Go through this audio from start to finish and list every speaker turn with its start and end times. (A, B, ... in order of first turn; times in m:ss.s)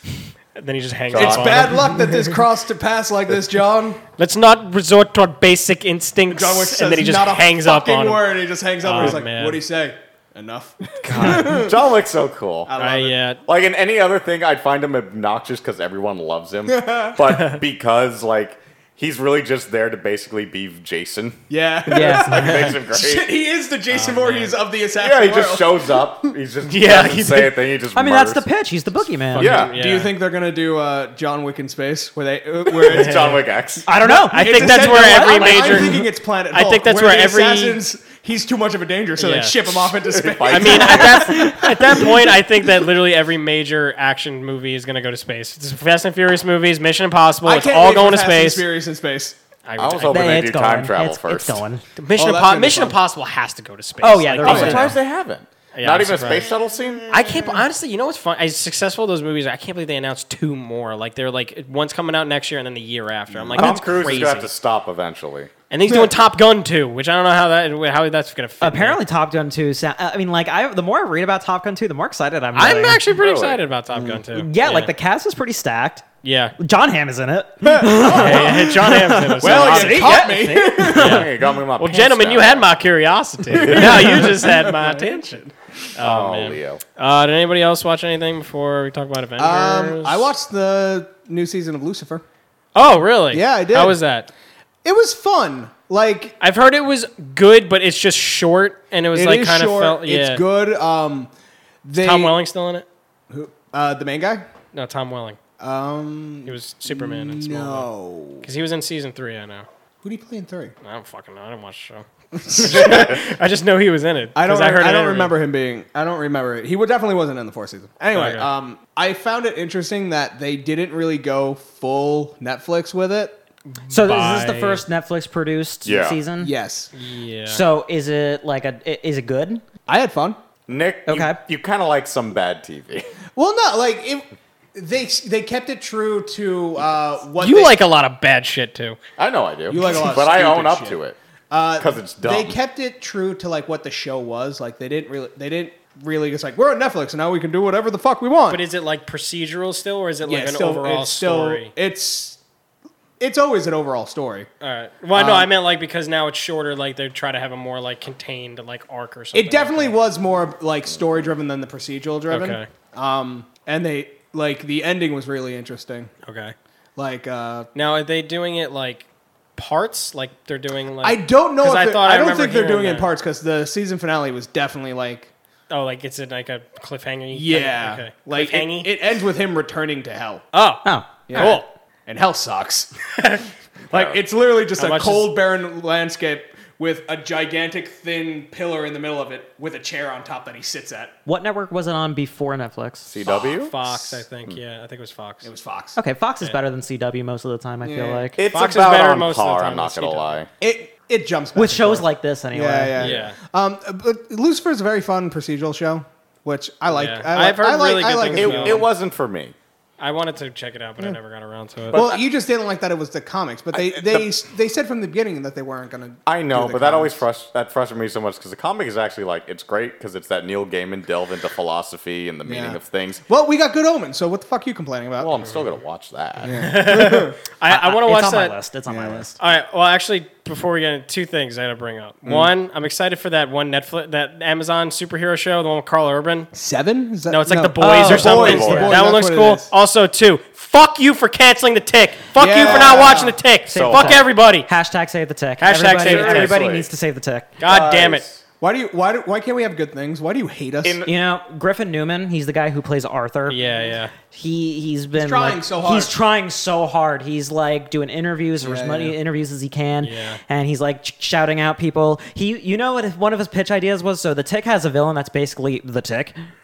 0:00.5-0:02.2 A
0:01.1-0:01.8 B
0:01.1-0:04.0 C
0:04.2-0:08.2 A
0:06.3-0:11.8 C
0:08.8-0:09.6 A
0:11.0-0:11.6 D
0:11.1-0:11.5 A
0:11.1-0:12.7 B
0:12.7-0:13.2 C
0:12.8-0:13.4 A
0:13.4-0:23.3 B
0:16.6-0:17.2 C
0:17.2-0:17.6 A
0:21.5-0:26.3 C
0:21.9-0:22.7 D
0:23.9-0:24.6 A
0:25.0-0:28.4 B
0:26.6-0:27.6 A
0:27.9-0:29.5 D
0:29.3-0:30.1 A
0:29.4-0:29.7 B
0:29.4-0:33.4 C
0:32.8-0:33.4 A
0:32.8-0:33.9 B
0:33.8-0:35.8 D
0:34.0-0:42.4 C
0:34.0-0:37.8 A
0:39.2-0:39.8 A
0:40.0-0:41.4 B
0:40.5-0:48.6 A
0:41.1-0:41.6 D
0:47.4-0:49.4 C
0:49.6-0:50.5 A
0:49.8-0:51.6 B
0:50.1-0:51.8 D
0:52.0-0:55.0 A
0:52.2-0:53.0 C
0:54.0-0:54.9 D
0:54.4-0:57.5 B
0:55.7-0:56.5 A
0:57.1-1:04.5 A
1:03.3-1:03.6 C
1:03.5-1:05.5 B
1:05.7-1:09.0 A
1:08.6-1:13.0 D
1:12.6-1:14.9 A
1:13.1-1:13.6 B
1:13.9-1:14.2 C
1:14.3-1:16.0 D
1:16.2-1:16.5 A
1:16.6-1:21.2 D
1:17.6-1:18.5 C
1:17.9-1:20.2 A
1:19.4-1:21.2 C
1:20.8-1:22.7 B
1:20.9-1:30.3 A
1:23.5-1:24.4 B
1:23.5-1:25.5 C
1:26.0-1:26.8 B
1:29.4-1:32.2 C
1:32.7-1:34.3 A
1:33.3-1:34.0 C
1:34.8-1:36.4 C
1:36.4-1:40.4 A
1:39.1-1:41.3 C
1:41.8-1:42.4 C
1:42.0-1:42.8 A
1:43.3-1:44.4 C
1:44.7-1:45.4 A
1:45.6-1:48.5 C
1:46.4-1:47.9 A
1:48.4-1:49.7 A
1:50.0-1:50.7 C
1:50.8-1:55.3 A
1:52.3-1:53.2 C
1:54.3-2:03.4 C
1:58.1-1:58.5 A
2:03.8-2:04.8 A
2:03.9-2:06.5 D
2:05.8-2:06.2 B
2:06.4-2:06.9 C
2:06.9-2:07.6 A
2:07.5-2:09.6 D
2:09.9-2:10.4 C
2:10.7-2:13.0 B
2:11.0-2:11.4 D
2:13.4-2:17.8 C
2:17.4-2:19.0 A
2:19.2-2:21.2 B
2:19.7-2:21.0 C
2:21.5-2:28.6 C
2:21.8-2:22.6 B
2:28.5-2:31.7 A
2:30.2-2:32.4 C
2:33.2-2:34.5 C
2:34.6-2:39.9 A
2:35.1-2:35.5 C
2:39.3-2:46.1 C
2:42.3-2:42.7 A
2:46.2-2:46.5 A
2:47.0-2:47.7 C
2:47.7-2:53.1 A
2:51.0-2:55.3 C
2:55.7-2:58.9 A
2:57.3-3:00.4 C
3:00.5-3:01.6 A
3:00.8-3:01.6 D
3:01.3-3:02.9 C
3:03.1-3:03.4 A
3:03.9-3:04.2 B
3:03.9-3:11.1 C
3:04.8-3:05.3 A
3:11.2-3:13.1 D
3:13.1-3:13.8 B
3:13.3-3:15.5 A
3:15.4-3:16.0 C
3:16.0-3:18.4 D
3:17.8-3:18.3 C
3:18.4-3:20.5 B
3:18.5-3:20.3 A
3:20.6-3:28.9 C
3:21.6-3:23.1 D
3:23.0-3:23.4 A
3:26.9-3:28.8 A
3:28.3-3:29.5 B
3:30.0-3:32.0 A
3:31.9-3:32.2 B
3:31.9-3:37.2 C
3:33.7-3:34.3 B
3:36.2-3:43.2 B
3:42.4-3:45.4 C
3:45.2-3:46.6 B
3:46.4-3:47.4 C
3:46.5-3:48.6 A
3:47.7-3:49.4 D
3:48.9-3:49.3 C
3:49.4-3:56.5 A
3:56.5-3:59.7 C
3:57.3-4:04.7 A
3:57.8-3:59.0 D
3:58.3-3:58.8 B
4:02.4-4:03.4 C
4:02.7-4:04.2 B
4:03.6-4:07.5 D
4:05.6-4:06.6 A
4:06.0-4:06.9 B
4:07.6-4:08.2 A
4:07.6-4:08.4 B
4:08.6-4:11.0 C
4:10.8-4:11.1 B
4:11.0-4:13.7 D
4:13.5-4:14.1 A
4:14.2-4:26.3 D
4:15.2-4:16.2 C
4:18.6-4:19.2 C
4:20.0-4:20.4 A